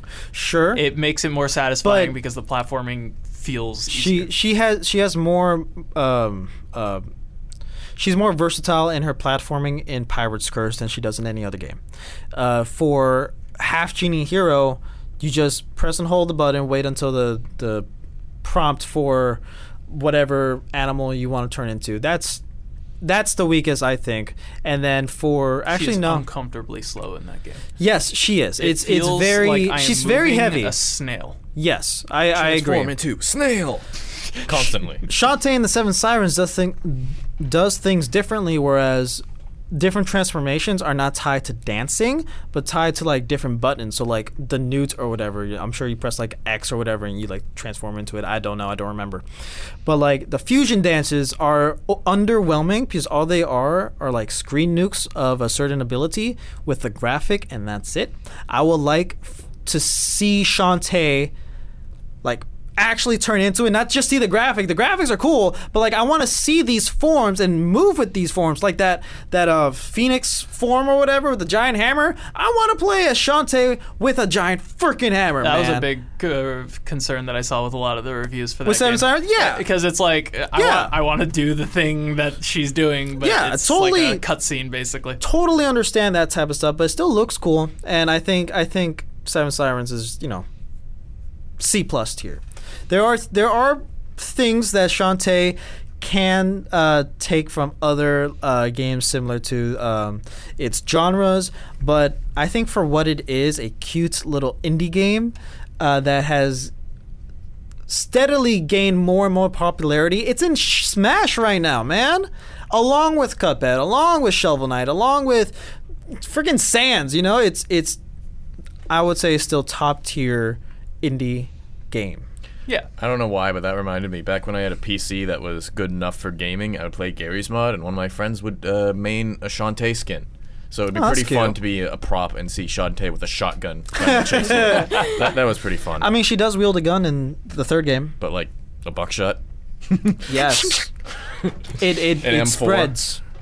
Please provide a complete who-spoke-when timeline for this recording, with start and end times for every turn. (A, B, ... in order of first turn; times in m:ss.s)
0:00.3-0:00.8 A
0:00.7-0:04.3 B
0:01.8-0:02.1 A
0:03.9-0:07.0 A
0:08.0-0:11.8 A
0:12.3-0:17.8 A
0:18.4-0:22.4 A
0:23.0-0:26.2 A
0:25.7-0:27.6 B
0:27.8-0:30.7 A
0:28.6-0:31.4 B
0:31.5-0:32.9 A
0:32.3-0:35.0 C
0:35.1-0:49.2 A
0:49.8-1:01.3 A
1:02.2-1:15.9 A
1:15.4-1:25.2 B
1:18.6-1:19.6 A
1:20.5-1:20.9 A
1:23.2-1:24.2 A
1:25.2-1:30.4 A
1:31.6-1:46.7 A
1:47.9-1:55.6 A
1:56.1-1:58.0 A
1:58.9-2:02.2 A
2:03.0-2:16.1 C
2:10.9-2:11.6 A
2:14.0-2:15.3 A
2:16.0-2:18.2 A
2:18.2-2:19.4 C
2:20.0-2:20.8 C
2:20.2-2:20.8 A
2:21.8-2:23.2 A
2:22.2-2:22.9 C